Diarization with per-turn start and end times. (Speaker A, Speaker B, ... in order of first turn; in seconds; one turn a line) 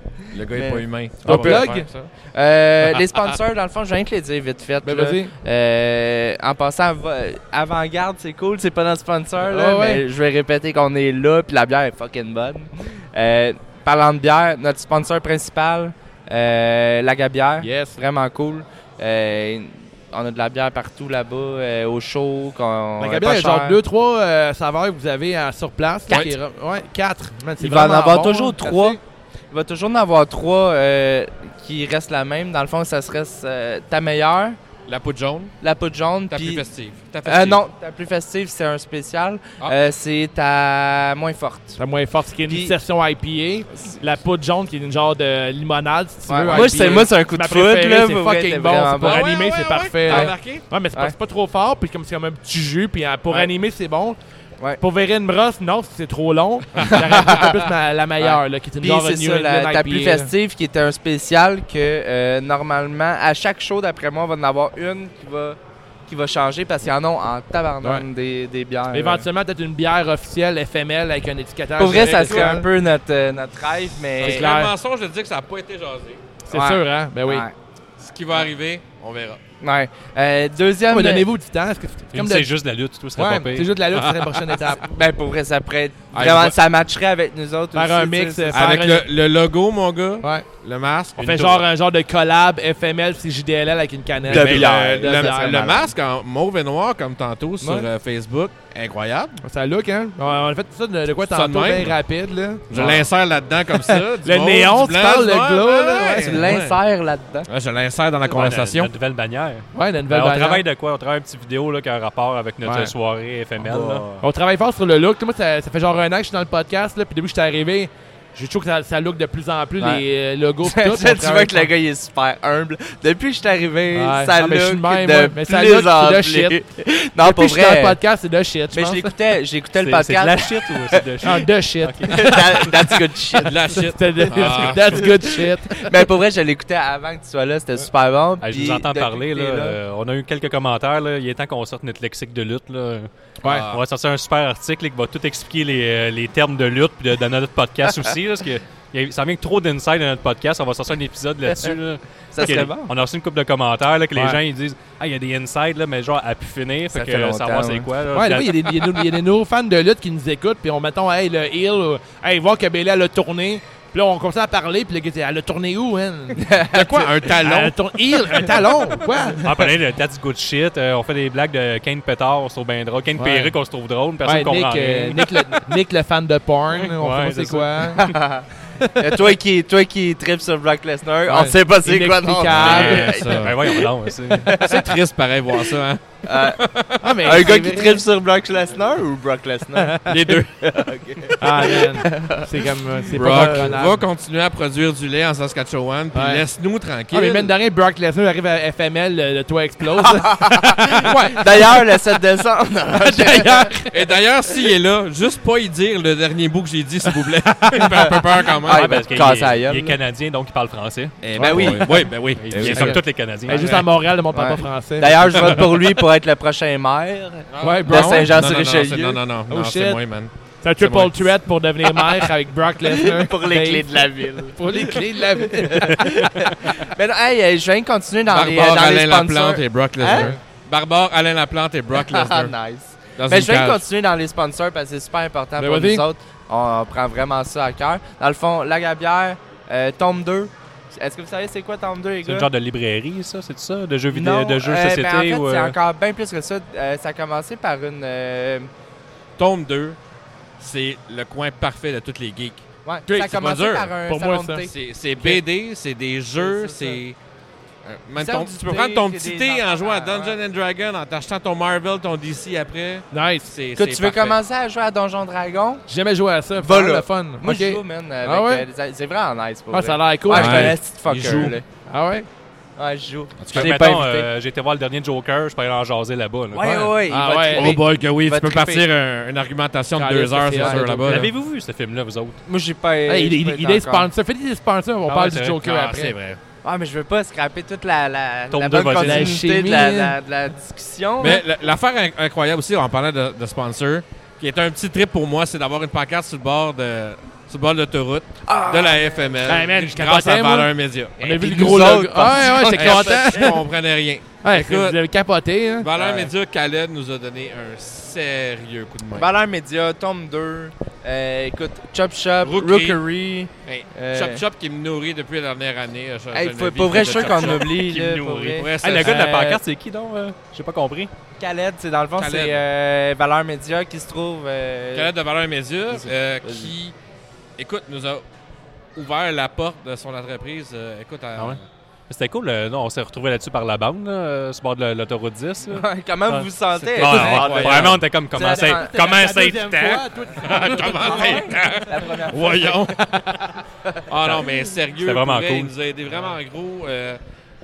Speaker A: 0.2-1.7
Speaker B: 0.3-2.1
Speaker C: 1.2-1.9
Speaker A: 2.3-23.8
Speaker C: 4.8-5.3
Speaker C: 9.4-10.0
Speaker C: 17.6-18.0
Speaker C: 23.0-29.0
Speaker B: 26.1-26.3
Speaker A: 27.6-29.0
Speaker A: 29.5-34.6
Speaker B: 34.9-35.5
Speaker A: 35.6-36.6
Speaker B: 36.3-37.6
Speaker A: 37.2-41.8
Speaker C: 41.8-54.2
Speaker A: 42.5-42.7
Speaker A: 46.3-49.4
Speaker B: 46.4-47.1
Speaker B: 49.0-50.6
Speaker A: 50.1-50.3
Speaker C: 54.8-60.3
Speaker B: 56.8-57.0
Speaker A: 56.9-57.5
Speaker A: 58.2-69.2
Speaker C: 68.9-72.7
Speaker A: 71.8-74.4
Speaker B: 71.9-72.5
Speaker B: 74.2-76.2
Speaker C: 74.2-74.7
Speaker C: 76.5-77.4
Speaker A: 76.5-77.5
Speaker B: 78.0-79.4
Speaker A: 79.6-81.2
Speaker C: 80.9-82.5
Speaker D: 82.1-83.7
Speaker C: 83.1-84.8
Speaker B: 83.9-84.4
Speaker A: 84.6-88.8
Speaker B: 86.1-86.6
Speaker C: 87.7-89.0
Speaker B: 88.5-91.2
Speaker D: 91.2-91.6
Speaker C: 91.2-95.6
Speaker A: 94.3-95.9
Speaker B: 94.3-99.4
Speaker C: 97.6-97.9
Speaker C: 99.4-103.1
Speaker B: 101.3-102.0
Speaker B: 102.7-106.8
Speaker C: 103.9-106.6
Speaker A: 106.0-107.5
Speaker B: 107.5-108.9
Speaker D: 108.3-114.0
Speaker C: 109.7-110.6
Speaker C: 112.6-112.9
Speaker A: 113.6-114.2
Speaker C: 114.2-121.7
Speaker A: 120.6-128.0
Speaker C: 123.9-126.6
Speaker C: 127.2-129.1
Speaker A: 128.7-131.3
Speaker D: 129.8-132.7
Speaker C: 131.2-135.9
Speaker A: 132.1-133.6
Speaker B: 133.4-135.2
Speaker A: 134.3-139.8
Speaker D: 138.4-143.1
Speaker C: 143.4-143.7
Speaker B: 143.4-143.8
Speaker D: 143.6-158.8
Speaker A: 152.3-152.9
Speaker A: 156.9-157.9
Speaker C: 158.1-166.8
Speaker A: 166.3-167.1
Speaker B: 166.7-167.8
Speaker C: 167.3-169.7
Speaker D: 169.4-175.3
Speaker C: 173.2-173.6
Speaker C: 174.2-178.1
Speaker D: 176.8-178.1
Speaker A: 177.9-184.9
Speaker C: 181.2-183.2
Speaker D: 182.5-184.5
Speaker B: 182.5-183.6
Speaker B: 184.5-187.3
Speaker A: 185.6-186.7
Speaker C: 187.0-188.0
Speaker A: 187.2-193.7
Speaker C: 189.8-190.1
Speaker B: 190.1-190.5
Speaker C: 191.4-194.0
Speaker B: 193.1-197.5
Speaker C: 196.1-196.4
Speaker C: 197.1-201.8
Speaker A: 200.0-203.7
Speaker B: 201.0-201.7
Speaker C: 202.9-203.9
Speaker B: 203.9-209.3
Speaker C: 207.7-208.1
Speaker A: 207.7-210.0
Speaker D: 208.6-211.1
Speaker B: 211.2-213.8
Speaker C: 211.4-211.8
Speaker A: 211.4-212.8
Speaker D: 212.3-213.7
Speaker C: 212.6-215.9
Speaker A: 214.3-219.2
Speaker B: 217.5-221.3
Speaker C: 217.6-218.4
Speaker C: 219.5-220.0
Speaker C: 220.6-226.5
Speaker A: 221.9-222.3
Speaker A: 222.8-230.3
Speaker B: 228.3-232.5
Speaker C: 230.1-230.4
Speaker A: 231.9-242.5
Speaker B: 233.2-233.8
Speaker C: 235.6-236.0
Speaker D: 242.2-245.8
Speaker A: 244.1-248.7
Speaker B: 249.4-250.0
Speaker B: 250.6-253.9
Speaker A: 252.8-255.4
Speaker C: 254.1-254.7
Speaker B: 254.7-257.2
Speaker A: 256.4-257.0
Speaker B: 257.8-264.4
Speaker A: 258.2-260.4
Speaker C: 263.1-263.5
Speaker A: 263.8-265.8
Speaker C: 265.9-268.6
Speaker A: 266.6-271.6
Speaker C: 269.7-270.8
Speaker B: 270.3-271.6
Speaker C: 271.3-272.3
Speaker A: 272.8-274.3
Speaker B: 273.4-273.9
Speaker D: 273.5-276.7
Speaker A: 276.5-278.9
Speaker C: 276.6-277.8
Speaker B: 277.5-281.3
Speaker C: 279.9-281.3
Speaker D: 281.0-282.4
Speaker A: 282.4-284.1
Speaker C: 283.1-286.1
Speaker D: 285.1-285.7
Speaker B: 285.6-286.4
Speaker A: 286.6-291.4
Speaker D: 288.5-289.4
Speaker C: 289.0-290.1
Speaker B: 291.2-301.8
Speaker A: 298.5-299.6
Speaker C: 299.4-303.6
Speaker A: 301.2-303.6
Speaker B: 302.6-305.0
Speaker C: 304.4-305.9
Speaker B: 305.8-309.3
Speaker A: 305.9-306.3
Speaker A: 309.1-314.4
Speaker B: 312.4-313.0
Speaker B: 313.6-317.8
Speaker A: 316.3-318.7
Speaker D: 316.9-321.1
Speaker B: 318.4-319.3
Speaker C: 319.0-319.6
Speaker A: 321.4-325.1
Speaker B: 322.1-322.6
Speaker B: 324.9-326.9
Speaker A: 325.9-326.7
Speaker B: 327.6-328.2
Speaker B: 328.9-331.6
Speaker D: 331.4-340.1
Speaker A: 335.6-339.1
Speaker B: 336.9-338.0
Speaker C: 338.4-341.5
Speaker A: 340.3-343.3
Speaker B: 340.4-343.1
Speaker B: 344.1-347.2
Speaker D: 345.0-345.7